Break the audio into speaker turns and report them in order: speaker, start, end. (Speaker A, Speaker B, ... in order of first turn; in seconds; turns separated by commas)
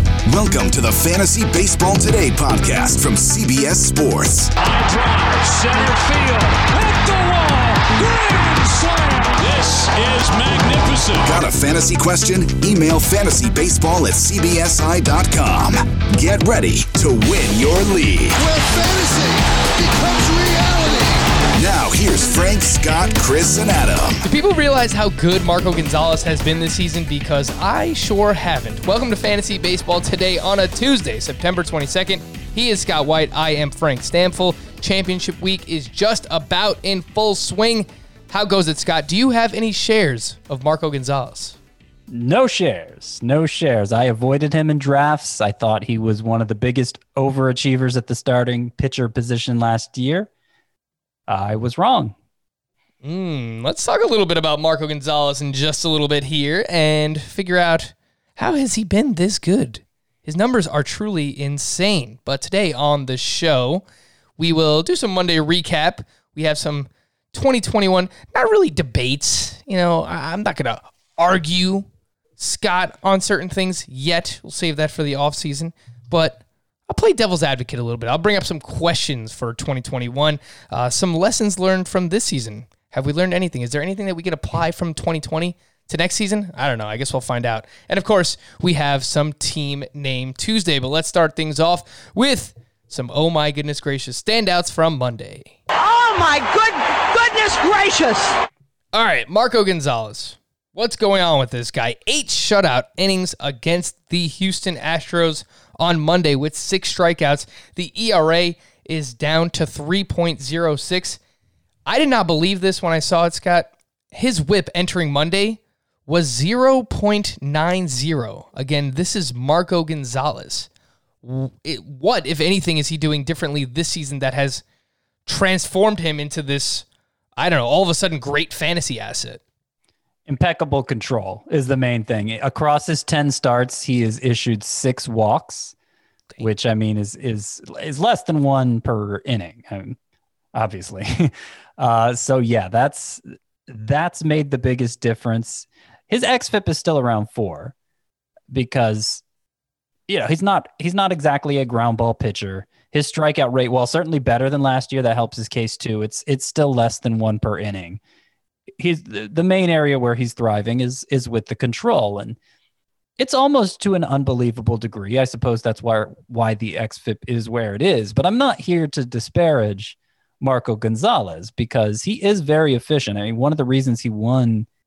Speaker A: 0.3-4.5, Speaker B: 4.5-11.4, Speaker A: 11.2-18.4, Speaker B: 18.4-21.4, Speaker A: 21.5-24.2, Speaker C: 24.2-41.6, Speaker D: 42.1-50.3, Speaker D: 51.3-52.1, Speaker C: 53.0-63.8, Speaker C: 64.4-95.5, Speaker E: 95.7-98.4, Speaker C: 98.9-111.2, Speaker C: 111.9-120.7, Speaker C: 121.2-124.6, Speaker C: 125.2-126.8, Speaker C: 127.4-129.4, Speaker D: 130.3-135.7, Speaker D: 136.4-140.0, Speaker D: 140.5-147.7, Speaker D: 148.5-149.2, Speaker D: 150.1-158.0, Speaker D: 158.8-162.4, Speaker D: 163.2-174.7